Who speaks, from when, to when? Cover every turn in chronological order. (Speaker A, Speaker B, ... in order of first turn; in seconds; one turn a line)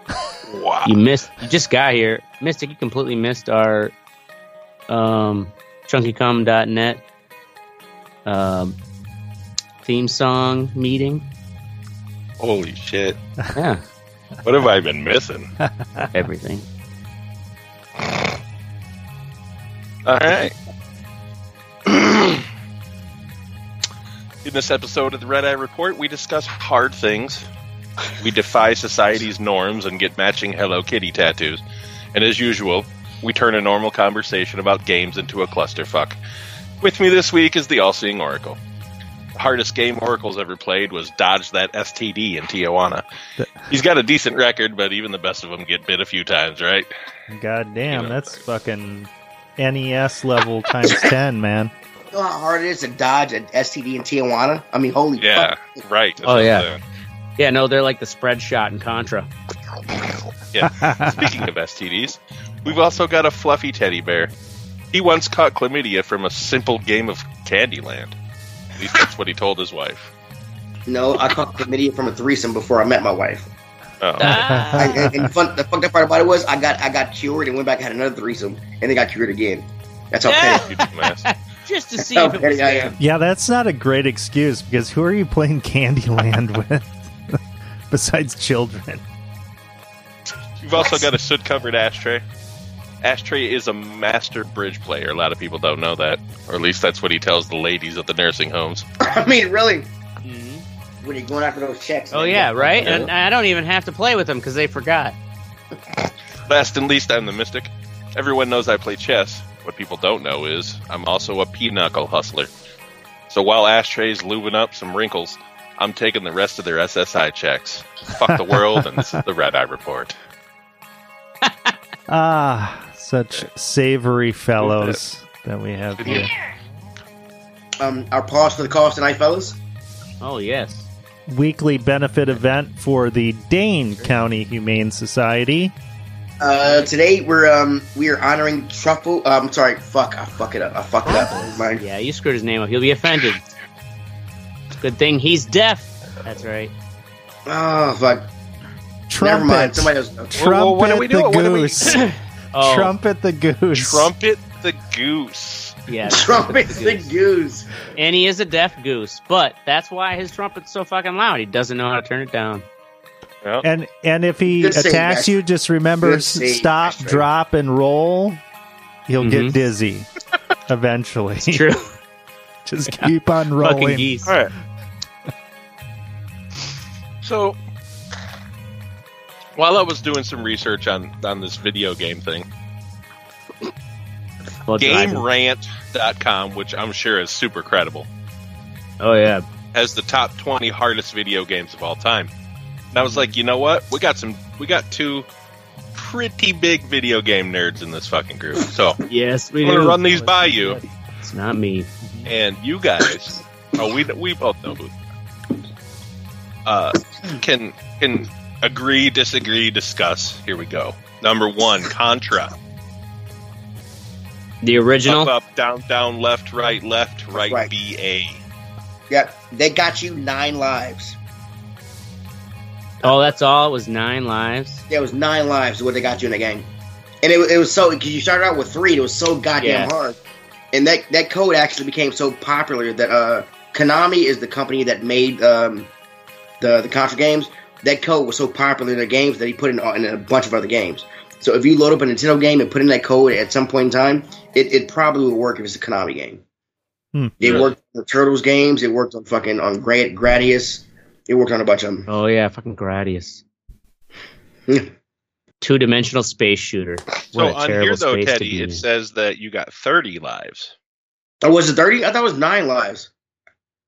Speaker A: 0.5-1.0
Speaker B: 0.8-3.9
Speaker B: 4.9-7.0
Speaker B: 8.3-8.8
Speaker B: 9.8-11.3
Speaker A: 12.4-13.2
Speaker B: 13.6-13.8
Speaker A: 14.4-15.5
Speaker C: 15.6-16.1
Speaker B: 16.1-16.7
Speaker A: 20.1-20.6
Speaker A: 21.9-22.5
Speaker A: 24.4-27.5
Speaker A: 28.2-31.6
Speaker A: 32.1-36.2
Speaker A: 36.8-38.6
Speaker A: 39.4-43.0
Speaker C: 43.4-43.7
Speaker A: 43.7-46.9
Speaker C: 47.3-51.7
Speaker A: 47.9-48.4
Speaker D: 52.1-55.8
Speaker A: 55.2-56.8
Speaker B: 56.2-56.7
Speaker B: 57.4-59.3
Speaker A: 60.5-64.3
Speaker C: 60.6-61.2
Speaker A: 64.9-68.2
Speaker A: 68.8-70.1
Speaker D: 70.9-73.5
Speaker A: 74.0-74.4
Speaker B: 74.2-75.1
Speaker C: 74.2-75.3
Speaker D: 74.8-80.7
Speaker B: 80.2-83.0
Speaker A: 80.6-81.3
Speaker D: 82.1-83.0
Speaker C: 83.0-87.4
Speaker C: 87.9-89.0
Speaker A: 90.6-92.2
Speaker A: 93.0-98.9
Speaker D: 99.0-99.9
Speaker B: 100.2-100.7
Speaker D: 101.0-103.1
Speaker B: 102.1-105.2
Speaker A: 106.5-112.5
Speaker A: 113.3-120.2
Speaker C: 118.2-119.2
Speaker B: 121.4-121.7
Speaker C: 122.1-126.3
Speaker A: 124.6-125.0
Speaker A: 126.0-126.3
Speaker D: 127.8-129.6
Speaker B: 130.2-130.9
Speaker C: 131.3-135.7
Speaker D: 136.4-141.8
Speaker B: 136.5-136.9
Speaker B: 141.1-143.4
Speaker B: 144.8-146.7
Speaker D: 147.5-148.3
Speaker C: 149.1-152.0
Speaker D: 149.2-150.4
Speaker A: 150.3-152.0
Speaker B: 151.8-152.9
Speaker C: 152.6-154.1
Speaker A: 153.7-155.8
Speaker B: 155.9-157.2
Speaker D: 156.1-157.7
Speaker B: 157.9-162.7
Speaker C: 163.6-168.4
Speaker D: 164.5-165.3
Speaker D: 166.0-167.2
Speaker C: 169.1-170.1
Speaker B: 169.2-169.6
Speaker C: 170.7-171.6
Speaker B: 171.5-171.9
Speaker C: 172.7-174.1
Speaker B: 173.6-174.3
Speaker A: 174.2-174.5
Speaker A: 177.2-177.6
Speaker A: 179.6-182.5
Speaker B: 184.7-185.2
Speaker A: 184.8-188.1
Speaker B: 189.0-189.4
Speaker A: 189.7-192.3
Speaker A: 192.9-195.3
Speaker B: 193.0-193.3
Speaker A: 195.9-199.0
Speaker B: 199.1-200.0
Speaker A: 199.6-200.8
Speaker C: 200.0-200.9
Speaker B: 201.2-202.3
Speaker A: 202.3-205.0
Speaker A: 206.7-212.5
Speaker B: 214.6-215.3
Speaker A: 215.1-218.4
Speaker D: 217.3-217.7
Speaker D: 219.1-221.2
Speaker D: 223.0-223.3
Speaker B: 223.0-224.8
Speaker D: 224.9-226.7
Speaker D: 227.2-230.2
Speaker B: 229.6-229.9
Speaker D: 230.7-235.9
Speaker D: 236.6-246.4
Speaker D: 247.4-252.1
Speaker A: 247.4-247.7
Speaker B: 252.1-253.4
Speaker B: 255.6-258.8
Speaker A: 257.3-260.7
Speaker D: 261.4-263.1